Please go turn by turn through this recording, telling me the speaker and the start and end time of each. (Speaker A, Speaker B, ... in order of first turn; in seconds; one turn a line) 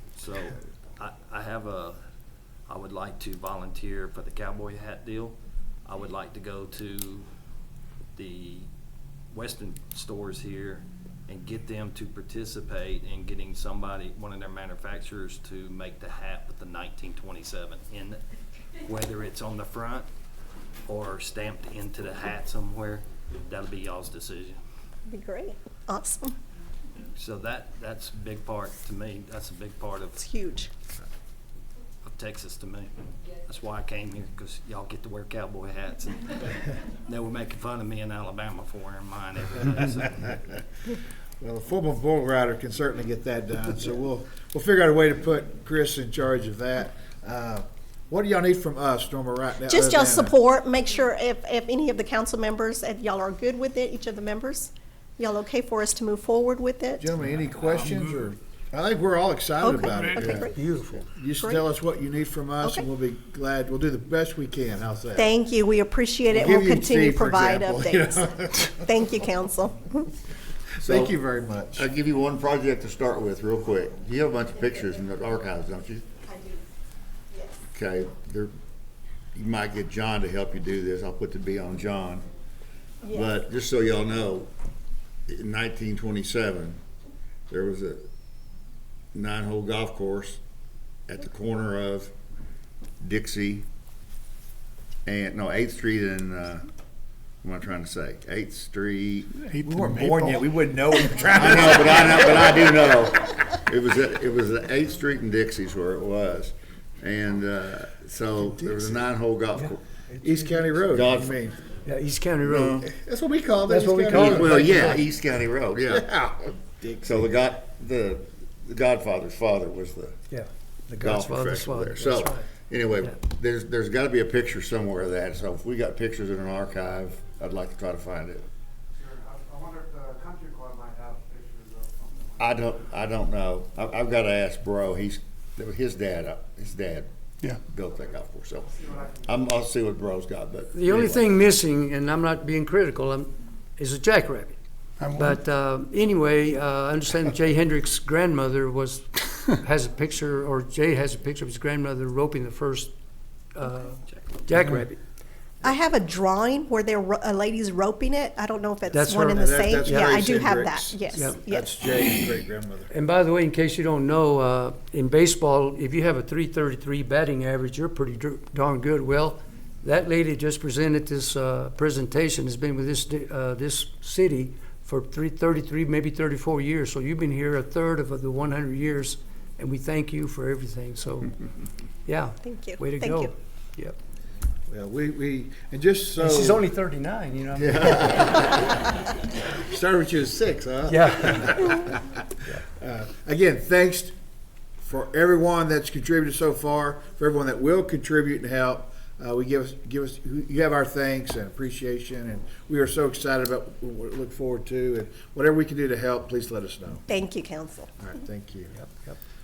Speaker A: 0.1-2.0
Speaker A: 2.7-7.2
Speaker A: 8.1-8.7
Speaker A: 9.3-18.2
Speaker A: 18.8-20.1
Speaker A: 20.9-24.6
Speaker B: 25.1-26.4
Speaker A: 27.1-30.2
Speaker B: 30.1-30.7
Speaker A: 32.0-40.6
Speaker C: 41.4-50.4
Speaker B: 49.7-57.1
Speaker C: 57.0-60.5
Speaker B: 59.6-60.6
Speaker D: 60.5-61.1
Speaker C: 61.1-65.3
Speaker B: 65.2-70.1
Speaker C: 66.3-68.7
Speaker C: 70.8-71.9
Speaker E: 70.8-71.1
Speaker E: 71.7-76.0
Speaker B: 76.2-76.6
Speaker B: 77.3-77.5
Speaker E: 77.7-78.5
Speaker E: 79.3-82.2
Speaker B: 83.0-83.4
Speaker E: 83.1-84.5
Speaker E: 85.3-86.8
Speaker E: 87.5-88.0
Speaker E: 89.1-90.4
Speaker E: 91.1-92.1
Speaker E: 93.0-93.7
Speaker E: 95.0-96.7
Speaker E: 97.4-99.3
Speaker C: 99.5-102.7
Speaker F: 99.7-100.3
Speaker E: 101.3-109.8
Speaker C: 108.5-109.1
Speaker C: 110.2-111.7
Speaker E: 110.9-111.4
Speaker D: 111.8-112.8
Speaker E: 112.4-112.9
Speaker C: 112.8-114.8
Speaker D: 113.7-115.0
Speaker E: 114.2-116.0
Speaker C: 115.9-117.1
Speaker E: 117.0-120.2
Speaker D: 120.3-122.5
Speaker E: 121.0-128.4
Speaker F: 129.3-131.3
Speaker E: 132.4-137.1
Speaker E: 137.7-141.3
Speaker D: 140.7-144.6
Speaker F: 145.0-145.4
Speaker D: 145.1-152.9
Speaker D: 153.5-155.0
Speaker A: 153.9-154.4
Speaker F: 154.6-154.8
Speaker B: 155.6-161.8
Speaker D: 158.9-160.2
Speaker C: 159.3-162.9
Speaker D: 161.1-161.4
Speaker D: 162.9-181.4
Speaker D: 182.1-183.9
Speaker B: 182.4-183.3
Speaker C: 184.7-186.7
Speaker D: 186.2-188.6
Speaker E: 187.5-188.5
Speaker C: 189.5-192.2
Speaker D: 190.9-192.6
Speaker C: 192.8-194.1
Speaker C: 194.8-207.0
Speaker B: 207.1-207.9
Speaker C: 208.0-208.8
Speaker D: 208.7-209.2